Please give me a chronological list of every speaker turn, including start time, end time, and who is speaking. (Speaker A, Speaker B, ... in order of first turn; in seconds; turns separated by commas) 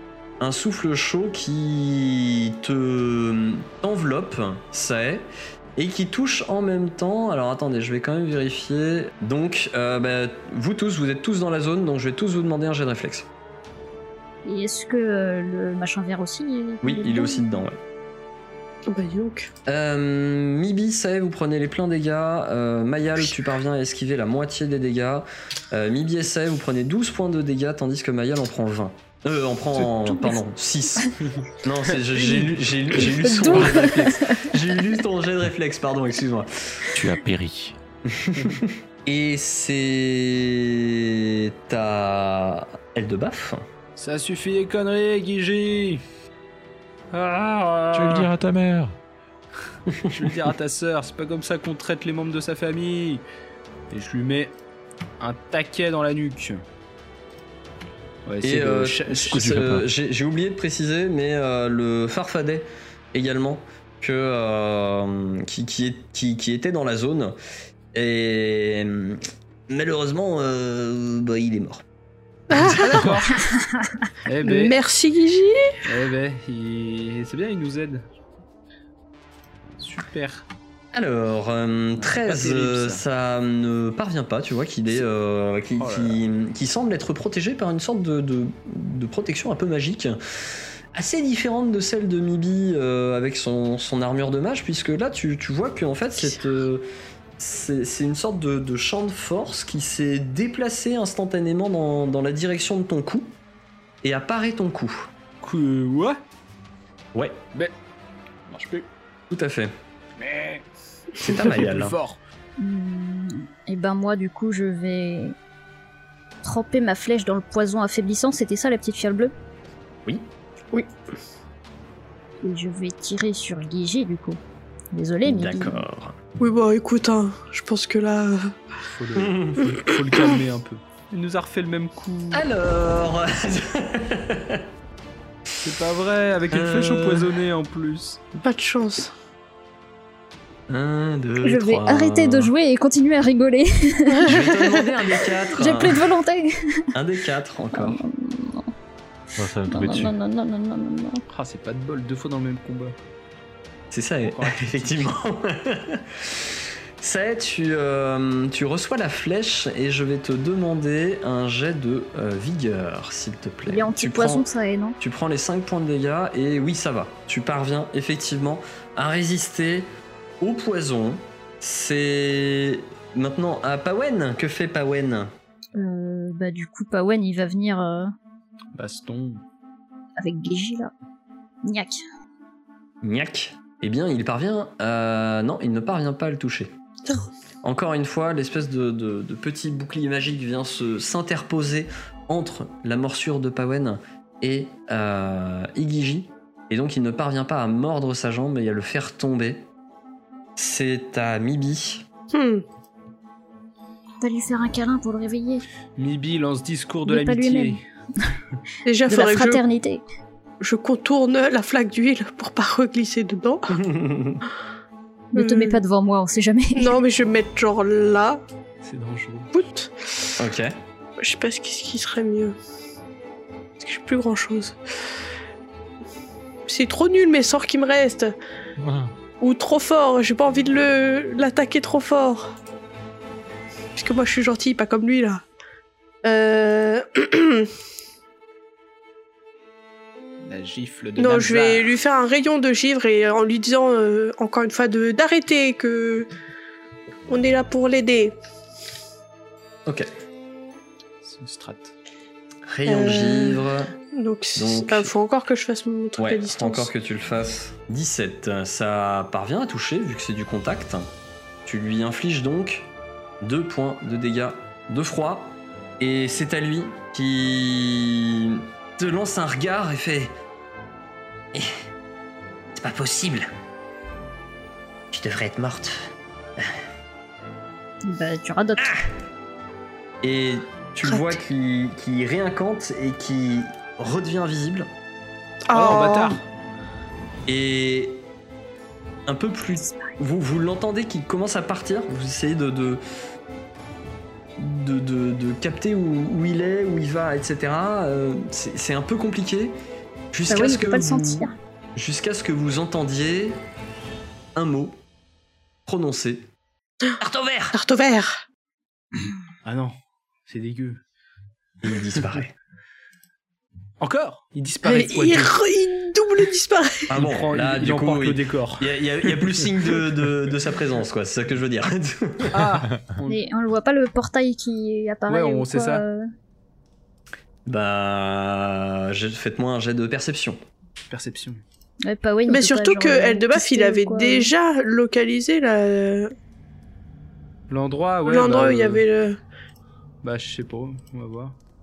Speaker A: 0.4-13.3, Speaker B: 14.4-17.4, Speaker A: 16.8-17.8, Speaker C: 18.9-19.5, Speaker A: 19.7-36.9, Speaker B: 33.0-34.6, Speaker D: 36.9-37.8, Speaker A: 38.1-43.6, Speaker E: 44.0-46.0, Speaker E: 47.1-48.3, Speaker D: 47.9-49.0, Speaker E: 50.1-53.2, Speaker E: 53.9-54.5, Speaker E: 55.2-56.6, Speaker E: 58.3-59.5, Speaker A: 58.4-67.4, Speaker D: 59.4-59.9, Speaker A: 67.9-71.8, Speaker C: 72.5-73.1, Speaker E: 72.6-73.5, Speaker E: 74.2-74.8, Speaker C: 74.4-75.6, Speaker E: 75.8-78.1, Speaker E: 79.8-80.5, Speaker A: 80.9-90.2, Speaker E: 82.0-83.0, Speaker E: 85.8-86.2, Speaker A: 90.9-96.9, Speaker A: 97.4-103.3, Speaker A: 104.0-105.1, Speaker E: 105.4-106.2, Speaker E: 108.5-108.9, Speaker A: 109.3-109.7, Speaker E: 110.2-110.6, Speaker A: 111.2-112.0, Speaker E: 111.2-112.2, Speaker B: 112.6-115.4, Speaker B: 116.4-119.3, Speaker B: 122.4-124.4, Speaker B: 124.9-125.8, Speaker A: 125.2-126.2, Speaker C: 126.4-128.5, Speaker E: 128.9-132.4, Speaker A: 129.2-129.7, Speaker A: 132.3-134.6, Speaker E: 135.6-138.2, Speaker A: 136.5-137.4, Speaker C: 138.4-139.1, Speaker A: 140.7-142.5, Speaker B: 141.4-144.3, Speaker C: 144.1-144.8, Speaker A: 144.3-146.1, Speaker B: 145.5-146.9, Speaker A: 146.9-148.0, Speaker B: 147.7-148.7, Speaker D: 149.4-150.1, Speaker B: 149.6-151.2, Speaker E: 151.3-152.9, Speaker A: 153.9-156.4, Speaker E: 154.2-155.2, Speaker A: 157.0-164.4, Speaker B: 163.7-165.0, Speaker A: 165.0-169.9, Speaker A: 170.4-175.3, Speaker B: 175.8-178.1, Speaker E: 178.7-179.4, Speaker B: 180.2-180.9, Speaker B: 181.6-182.0, Speaker A: 183.0-186.7, Speaker A: 187.6-199.7, Speaker A: 200.6-202.1, Speaker C: 202.3-202.6, Speaker B: 204.2-205.7, Speaker E: 205.9-207.8, Speaker B: 207.1-207.8, Speaker C: 208.9-209.6, Speaker B: 209.1-210.0, Speaker C: 210.6-213.8, Speaker A: 213.8-214.4, Speaker B: 215.3-217.0, Speaker C: 215.4-215.8, Speaker C: 216.7-218.4, Speaker E: 218.8-219.5, Speaker C: 219.5-220.3, Speaker A: 220.4-220.7, Speaker C: 221.2-222.6, Speaker C: 223.8-224.8, Speaker C: 226.7-228.3, Speaker D: 228.8-229.1, Speaker C: 229.4-232.5, Speaker C: 233.9-235.4, Speaker C: 236.2-237.7, Speaker E: 240.4-241.9, Speaker C: 241.2-246.3, Speaker C: 247.3-248.4, Speaker E: 251.2-251.9, Speaker A: 252.7-253.9, Speaker C: 252.9-256.9, Speaker A: 254.6-255.1, Speaker A: 256.2-261.1, Speaker A: 261.7-262.9, Speaker A: 263.4-270.3, Speaker A: 272.8-273.5, Speaker A: 275.1-276.7, Speaker B: 278.0-278.9, Speaker A: 278.8-279.1, Speaker A: 280.2-284.9, Speaker C: 281.1-281.4, Speaker C: 285.7-286.4, Speaker E: 285.7-286.4, Speaker A: 287.5-288.2, Speaker A: 289.3-293.0, Speaker A: 294.6-299.8, Speaker A: 300.3-303.6, Speaker B: 300.5-301.5, Speaker A: 304.6-305.0, Speaker A: 305.9-306.5, Speaker A: 307.2-307.8, Speaker C: 307.7-308.4, Speaker E: 309.6-311.0, Speaker A: 311.8-312.6, Speaker E: 314.0-315.6, Speaker C: 314.8-317.1, Speaker A: 317.1-322.6, Speaker E: 317.1-319.7, Speaker E: 322.5-323.5, Speaker B: 323.3-326.3, Speaker E: 325.3-326.0, Speaker A: 327.7-330.6, Speaker E: 331.1-331.6, Speaker B: 332.1-334.5, Speaker C: 332.5-336.3, Speaker E: 337.7-339.1, Speaker C: 338.3-339.4, Speaker E: 340.2-341.6